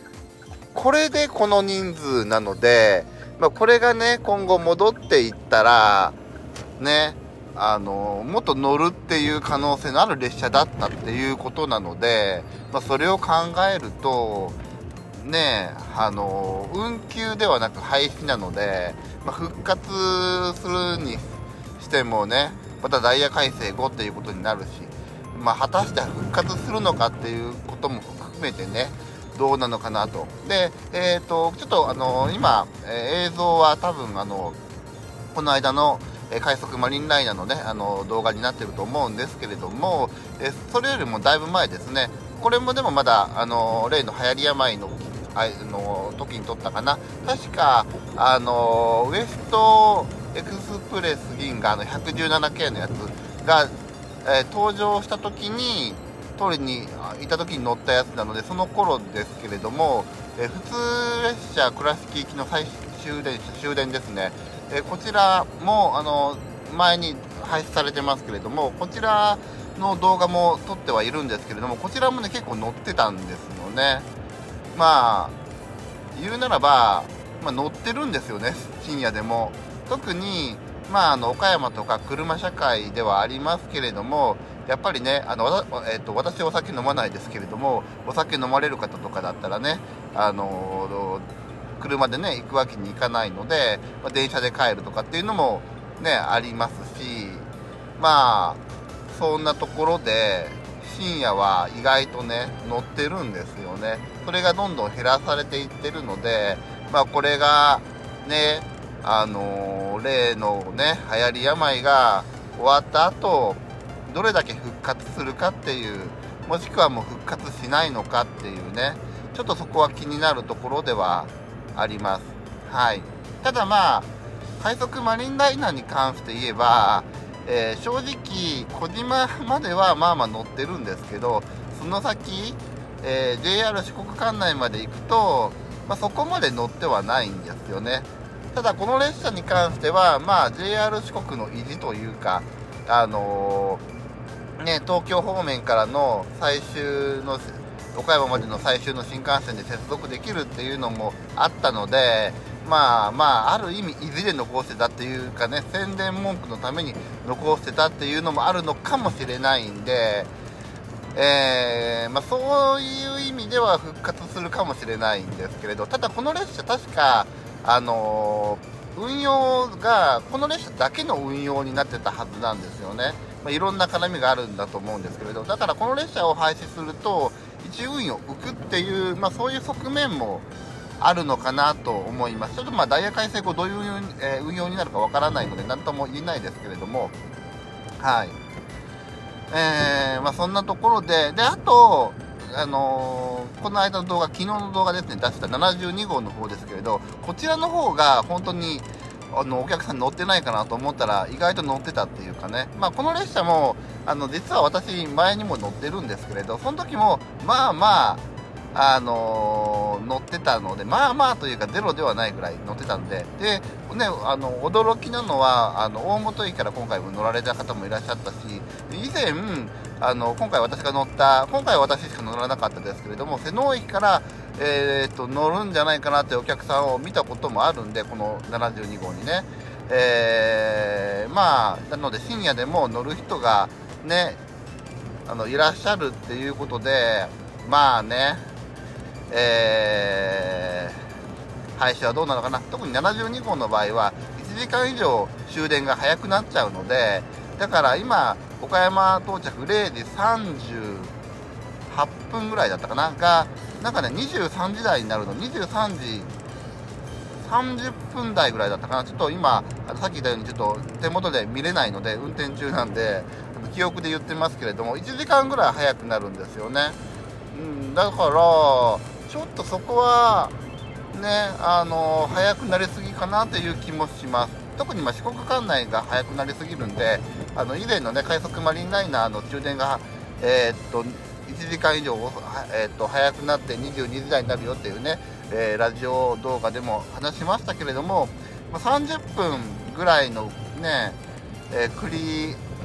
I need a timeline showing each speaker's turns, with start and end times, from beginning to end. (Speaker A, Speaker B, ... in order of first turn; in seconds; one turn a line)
Speaker A: 0.7-6.2
Speaker A: 6.8-14.6
Speaker A: 15.2-34.6
Speaker A: 35.3-74.1
Speaker A: 74.7-75.3
Speaker A: 76.1-91.3
Speaker A: 91.8-143.8
Speaker A: 144.6-160.3
Speaker A: 161.1-180.4
Speaker A: 181.0-187.1
Speaker A: 188.0-188.3
Speaker A: 189.5-208.2
Speaker A: 208.7-234.4
Speaker A: 235.2-238.4
Speaker A: 239.3-241.0
Speaker A: 241.8-251.1
Speaker A: 251.9-256.3
Speaker A: 257.4-267.0
Speaker A: 267.5-270.5
Speaker A: 271.1-291.2
Speaker A: 291.7-292.6